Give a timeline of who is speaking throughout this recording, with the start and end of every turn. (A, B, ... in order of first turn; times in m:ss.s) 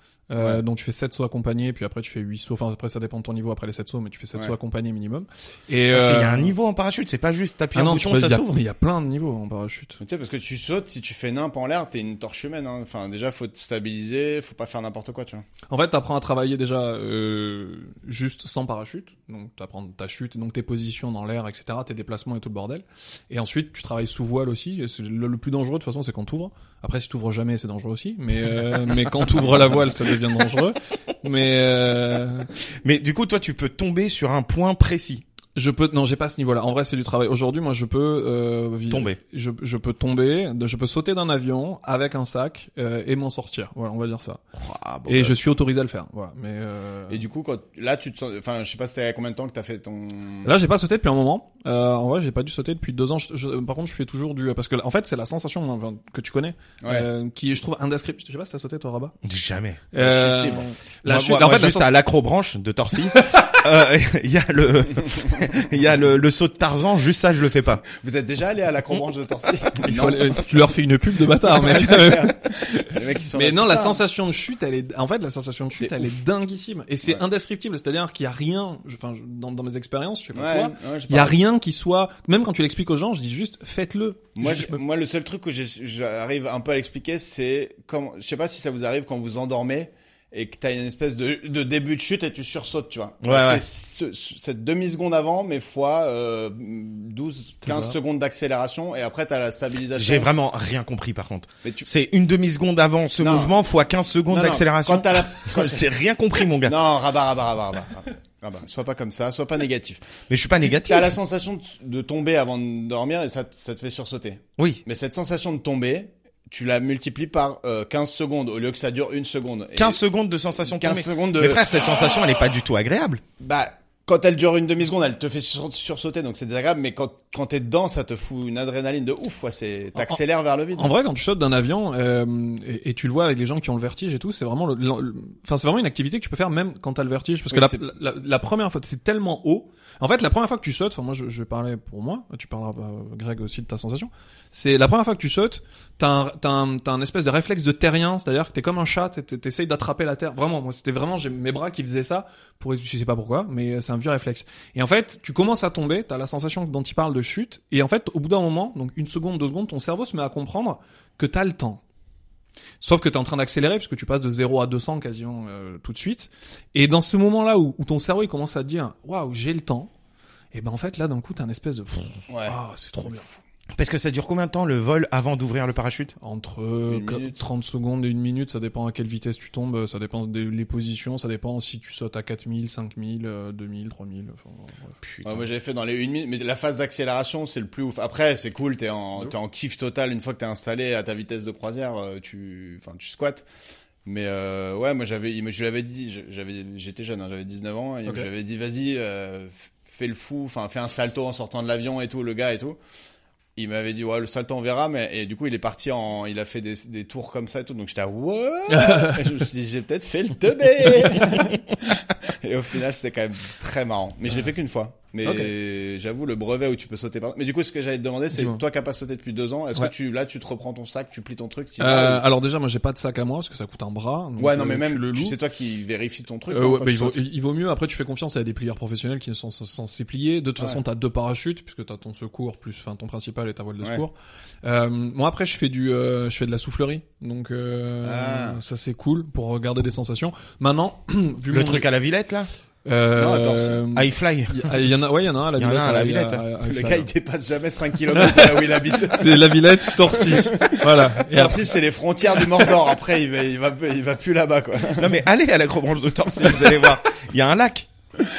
0:00.3-0:06.5 A
0:05.9-0:08.6 B
0:07.7-0:10.0 A
0:10.0-0:15.4 C
0:15.7-0:32.5 A
0:32.8-0:35.2 B
0:35.5-0:44.4 A
0:38.9-0:39.2 B
0:44.6-0:45.4 B
0:45.1-0:47.2 A
0:47.1-0:50.5 C
0:50.4-0:59.1 A
0:56.8-0:57.1 C
0:59.2-0:59.9 B
0:59.9-1:01.9 A
1:00.0-1:00.6 C
1:01.0-1:07.8 B
1:03.1-1:03.6 A
1:07.9-1:10.4 C
1:09.8-1:24.8 A
1:11.5-1:14.0 C
1:15.8-1:16.2 C
1:20.3-1:21.4 C
1:24.4-1:40.3 C
1:33.2-1:33.6 B
1:37.6-1:37.9 A
1:40.0-1:46.8 B
1:43.2-1:43.5 C
1:44.3-1:45.8 C
1:46.6-1:50.1 C
1:50.3-1:51.1 B
1:50.6-2:00.0 C
1:59.8-2:03.2 B
2:00.6-2:01.6 C
2:03.4-2:10.9 C
2:10.7-2:41.8 A
2:17.5-2:17.8 C
2:42.8-2:49.9 A
2:50.5-2:53.4 A
2:52.3-2:52.6 C
2:53.7-2:56.1 B
2:56.2-3:04.9 A
2:56.9-2:57.4 C
3:05.0-3:05.4 B
3:05.2-3:13.4 C
3:14.0-3:22.8 C
3:23.6-3:42.2 C
3:28.7-3:29.3 A
3:35.2-3:35.5 A
3:38.3-3:38.6 A
3:41.8-3:45.4 A
3:44.4-3:47.2 C
3:46.5-4:01.9 A
3:58.0-3:58.6 C
4:01.5-4:02.5 B
4:02.8-4:07.1 A
4:03.1-4:03.8 C
4:03.9-4:04.8 B
4:05.6-4:06.4 B
4:06.6-4:15.2 C
4:08.1-4:11.7 A
4:15.0-4:17.9 B
4:16.4-4:16.7 C